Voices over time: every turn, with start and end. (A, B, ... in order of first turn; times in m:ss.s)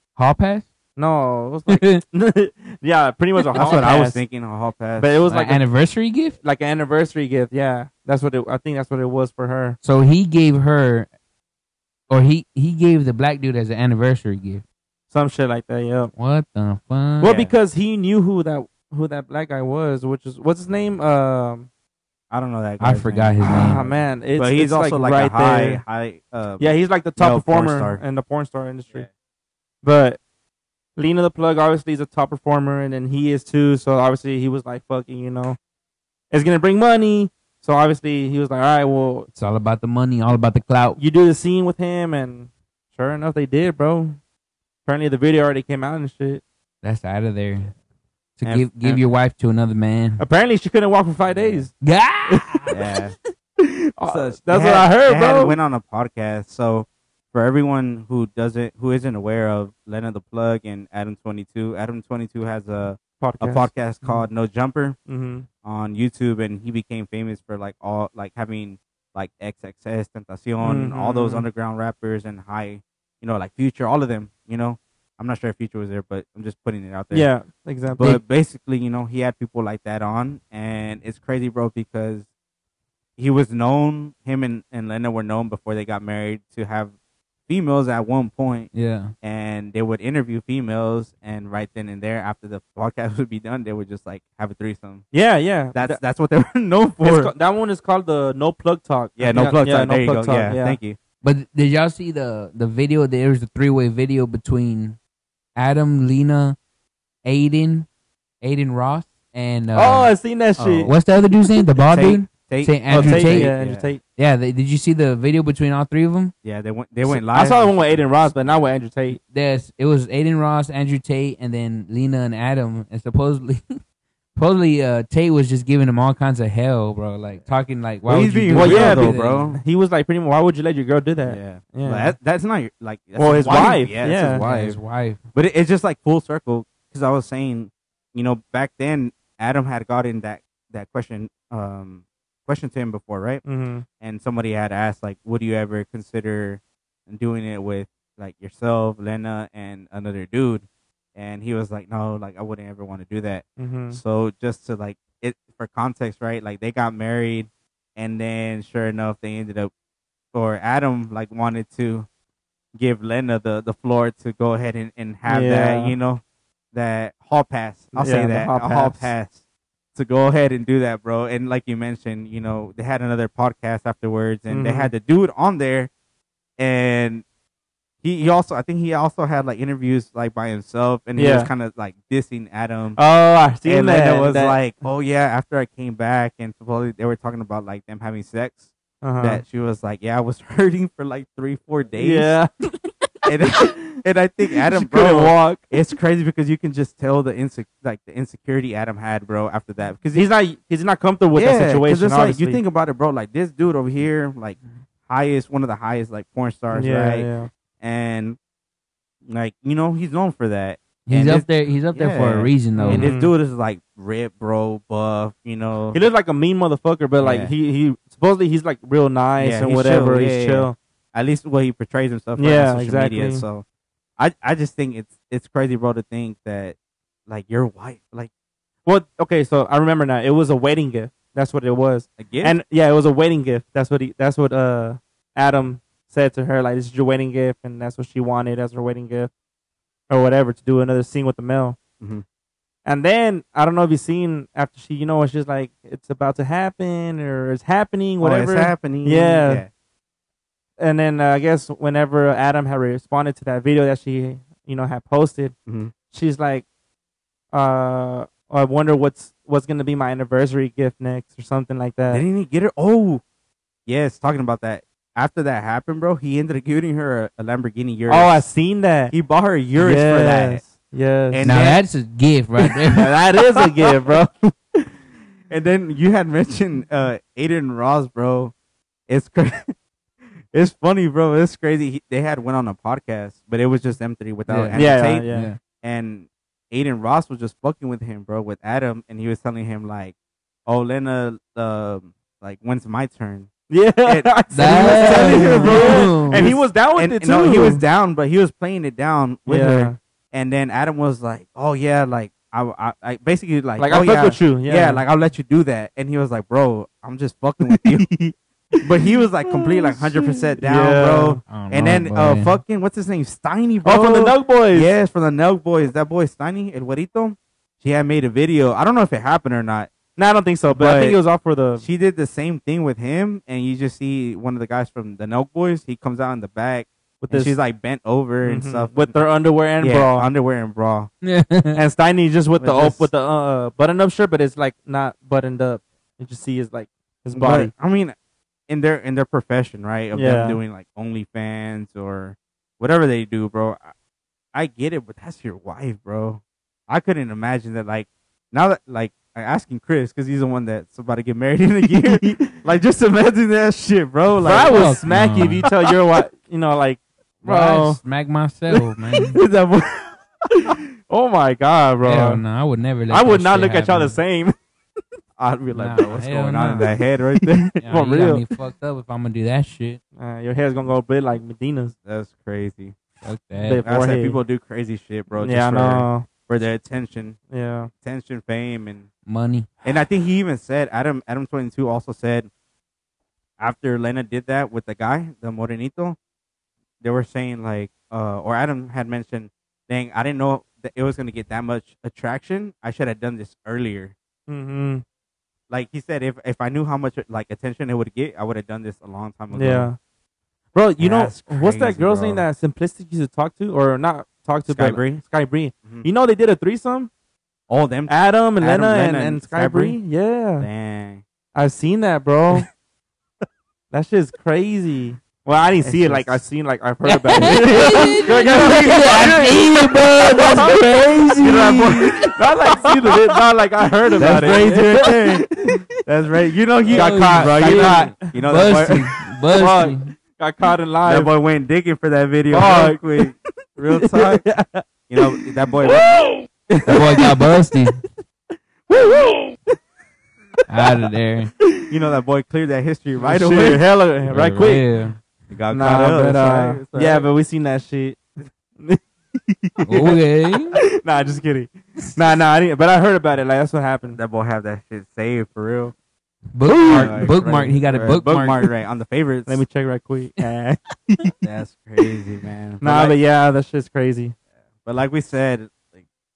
0:00.2-0:00.7 A
0:01.0-0:04.2 B
0:01.7-0:02.0 A
0:03.4-0:03.9 A
0:03.6-0:05.2 C
0:05.0-0:05.6 B
0:05.3-0:06.4 A
0:06.4-0:09.8 B
0:09.8-0:11.1 A
0:12.1-0:14.6 A
0:15.1-0:16.1 B
0:16.2-0:17.4 A
0:17.2-0:21.7 B
0:17.3-0:17.5 C
0:22.3-0:28.0 C
0:22.8-0:23.9 A
0:23.5-0:25.8 B
0:26.6-0:29.1 B
0:29.8-0:30.2 B
0:31.0-0:35.6 B
0:36.3-0:39.3 B
0:39.3-0:41.0 A
0:41.0-0:44.2 B
0:44.9-0:46.4 B
0:46.8-0:47.7 A
0:48.4-0:50.2 A
0:48.4-0:49.0 C
0:50.2-0:51.7 B
0:51.3-0:51.7 C
0:51.8-0:52.8 A
0:52.3-0:52.7 B
0:52.7-0:53.2 C
0:53.6-0:55.6 B
0:54.1-1:05.0 C
1:03.2-1:04.2 B
1:05.1-1:05.5 B
1:05.6-1:17.3 C
1:10.6-1:11.5 B
1:17.1-1:18.1 B
1:18.0-1:22.3 C
1:23.2-1:26.9 C
1:27.5-1:28.7 C
1:28.7-1:29.1 A
1:29.2-1:35.0 C
1:35.1-1:36.0 B
1:35.7-1:37.3 C
1:37.0-1:40.8 B
1:39.2-1:41.0 C
1:41.2-1:45.0 A
1:45.6-1:46.6 A
1:47.2-1:47.9 A
1:48.4-1:50.1 A
1:49.8-1:50.9 B
1:50.6-1:51.0 C
1:50.8-1:53.5 A
1:51.9-1:53.9 C
1:52.9-1:54.0 B
1:54.2-1:56.3 A
1:56.4-1:58.0 C
1:57.0-1:59.2 B
1:59.2-2:03.8 A
2:04.4-2:09.6 A
2:08.1-2:09.6 C
2:08.5-2:12.2 B
2:11.2-2:14.8 C
2:13.2-2:14.4 B
2:13.5-2:15.2 A
2:15.3-2:23.4 C
2:23.4-2:23.8 B
2:24.0-2:39.7 C
2:33.6-2:34.0 B
2:40.3-2:42.1 C
2:42.8-2:46.2 C
2:45.3-2:46.0 B
2:46.7-2:49.4 C
2:47.9-2:49.1 B
2:50.0-2:55.9 C
2:54.5-2:54.9 B
2:56.6-2:57.2 C
2:58.0-3:03.0 C
3:01.2-3:01.5 B
3:03.0-3:04.6 B
3:03.6-3:08.7 C
3:09.0-3:09.4 B
3:09.2-3:12.4 C
3:12.0-3:12.5 B
3:13.3-3:20.3 C
3:14.7-3:15.7 B
3:20.2-3:22.6 B
3:21.4-3:27.3 C
3:26.7-3:27.5 B
3:27.8-3:28.4 C
3:29.3-3:36.0 C
3:31.1-3:33.1 A
3:32.8-3:33.3 B
3:35.9-3:40.8 B
3:37.2-3:37.5 C
3:39.4-3:43.6 C
3:42.4-3:43.4 B
3:44.2-3:46.8 C
3:47.3-3:48.3 C
3:48.8-3:59.3 B
3:52.2-3:52.6 C
4:00.1-4:01.8 B
4:02.9-4:09.6 B
4:08.2-4:09.7 C
4:10.8-4:15.5 B
4:15.7-4:15.9 C
4:16.1-4:16.6 B
4:17.5-4:22.2 B
4:22.1-4:23.2 C
4:23.9-4:28.5 C
4:28.1-4:29.1 B
4:29.1-4:30.6 C
4:29.8-4:31.6 B
4:31.3-4:31.8 C
4:31.4-4:33.2 A
4:32.9-4:34.3 B
4:34.1-4:34.5 C
4:35.5-4:38.5 C
4:39.1-4:39.7 C
4:40.5-4:45.3 C
4:44.5-4:45.6 A
4:44.7-4:45.5 B
4:45.8-4:50.2 C
4:50.7-4:53.5 C
4:53.7-4:57.8 B
4:54.0-5:08.2 C
4:54.5-4:56.5 A
4:59.5-5:00.0 B
5:03.8-5:05.0 B
5:07.6-5:08.1 B
5:08.8-5:19.9 C
5:09.5-5:11.4 B
5:11.5-5:12.6 A
5:13.8-5:14.9 B
5:20.2-5:21.8 B
5:20.7-5:21.2 C
5:21.8-5:29.1 C
5:27.2-5:27.6 B
5:28.4-5:30.3 B
5:29.8-5:31.1 C
5:31.2-5:31.8 A
5:31.8-5:37.7 B
5:32.6-5:33.1 C
5:37.4-5:38.2 C
5:38.7-5:43.9 C
5:40.1-5:40.6 B
5:44.5-5:55.0 C
5:51.9-5:52.6 B
5:54.4-5:58.0 B
5:54.7-5:55.7 A
5:57.4-5:59.4 A
5:59.3-6:00.8 C
6:01.1-6:02.4 B
6:02.0-6:04.2 A
6:03.1-6:04.6 B
6:05.4-6:07.8 C
6:05.7-6:06.9 A
6:07.8-6:10.0 A
6:07.9-6:08.4 B
6:10.2-6:12.0 B
6:12.0-6:13.0 C
6:13.2-6:13.8 A
6:13.7-6:14.4 B
6:13.8-6:17.4 C
6:15.4-6:16.3 B
6:17.5-6:17.9 B
6:18.0-6:19.1 C
6:19.3-6:19.7 A
6:19.8-6:22.5 C
6:23.6-6:26.2 C
6:27.0-6:34.1 C
6:34.5-6:35.0 B
6:35.7-6:39.9 C
6:39.5-6:40.0 B
6:40.7-6:47.1 B
6:41.0-6:42.5 C
6:44.7-6:45.2 C
6:47.7-6:50.0 C
6:48.1-6:50.7 B
6:50.6-6:51.2 C
6:51.6-6:52.7 B
6:53.9-7:00.7 B
6:55.8-6:56.4 C
6:57.1-7:02.3 A
6:57.4-6:59.6 C
7:01.4-7:03.0 C
7:01.5-7:05.8 B
7:04.2-7:05.1 A
7:04.2-7:09.0 C
7:06.9-7:10.1 A
7:06.9-7:09.0 B
7:09.6-7:11.3 B
7:11.1-7:14.5 C
7:12.5-7:13.3 B
7:14.0-7:17.4 B
7:15.1-7:16.1 C
7:16.9-7:18.0 A
7:18.9-7:19.8 B
7:20.7-7:21.5 A
7:21.9-7:23.9 C
7:23.2-7:24.8 B
7:24.3-7:25.2 A
7:25.5-7:27.3 C
7:25.7-7:28.2 B
7:28.8-7:30.2 B
7:29.9-7:30.8 A
7:30.7-7:34.2 B
7:34.1-7:35.9 C
7:36.6-7:38.7 A
7:36.9-7:39.6 C
7:39.5-7:41.3 B
7:41.4-7:43.2 C
7:42.8-7:44.3 B
7:44.8-7:46.0 C